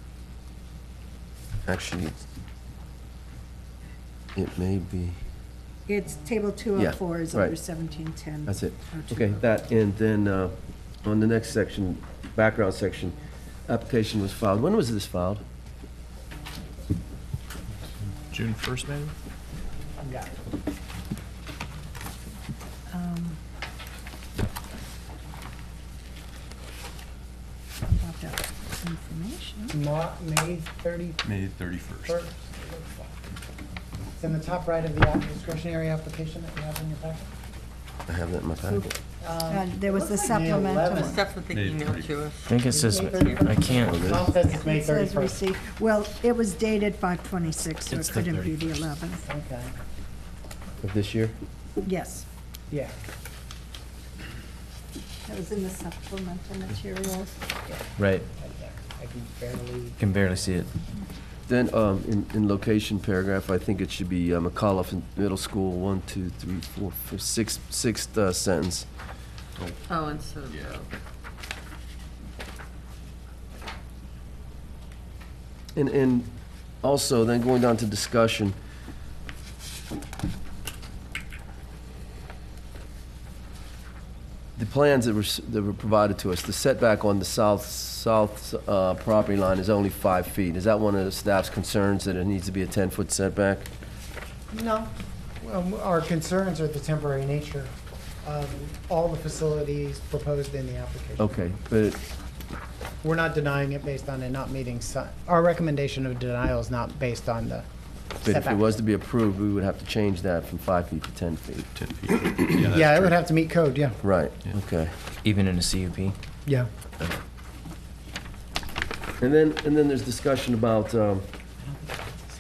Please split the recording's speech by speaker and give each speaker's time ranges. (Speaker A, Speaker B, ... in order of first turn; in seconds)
Speaker A: 1.7-2.1, 4.4-5.2, 6.8-7.6, 8.5-15.4, 38.1-39.0, 43.8-44.3, 50.8-51.4, 61.5-68.9, 75.8-76.3, 76.8-78.5, 84.6-93.7, 101.2-102.0, 108.2-111.7, 114.0-115.0, 119.2-121.2
Speaker B: 5.9-9.3, 22.9-23.4, 27.9-29.8, 38.6-38.9, 39.5-41.2, 44.4-49.2, 51.8-52.2, 55.3-57.3
Speaker C: 18.3-19.1, 31.3-32.2, 41.5-42.3, 69.6-70.8, 111.8-113.2
Speaker D: 20.0-20.3, 29.7-31.2, 32.0-33.2, 34.2-37.3, 39.2-41.3, 42.7-45.4, 49.2-49.7, 57.7-60.0, 94.5-97.7, 98.2-101.3, 103.0-107.7, 108.2-108.7, 112.7-114.0, 121.8-122.2
Speaker E: 41.0-43.8, 69.9-70.8
Speaker F: 42.5-44.2, 47.8-48.9, 58.0-58.3, 60.0-60.7, 115.2-116.2